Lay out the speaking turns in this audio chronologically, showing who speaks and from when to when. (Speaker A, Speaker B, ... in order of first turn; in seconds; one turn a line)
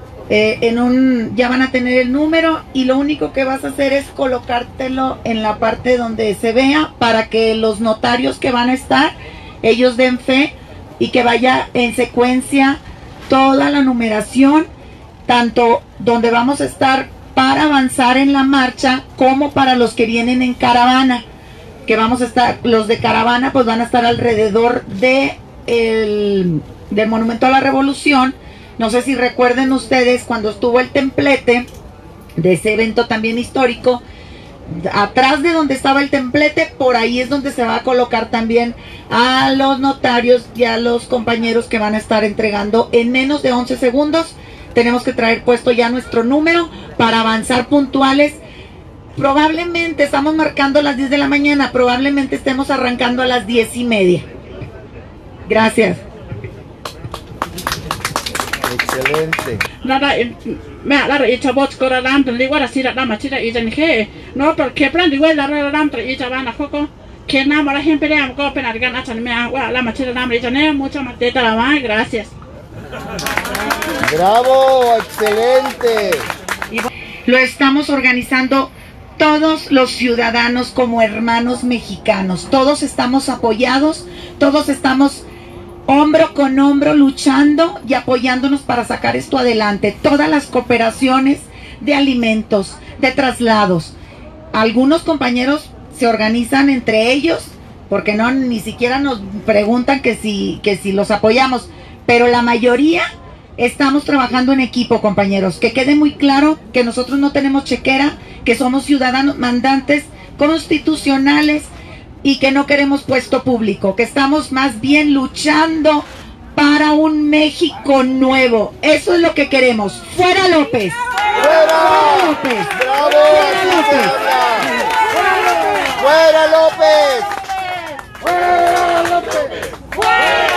Speaker A: 0.3-14.7
Speaker A: 15.3-21.2
Speaker A: 21.9-31.7
Speaker A: 32.4-34.0
Speaker A: 34.7-48.4
Speaker A: 49.2-54.3
Speaker A: 55.5-56.0
Speaker B: 58.7-59.6
Speaker C: 59.8-72.3
Speaker B: 74.1-76.3
Speaker A: 76.7-85.3
Speaker A: 85.9-93.9
Speaker A: 94.5-103.1
Speaker A: 103.6-111.7
Speaker A: 112.2-122.8
Speaker B: 121.4-122.1
Speaker B: 122.8-124.7
Speaker A: 123.3-124.1
Speaker B: 125.9-127.3
Speaker B: 129.0-129.5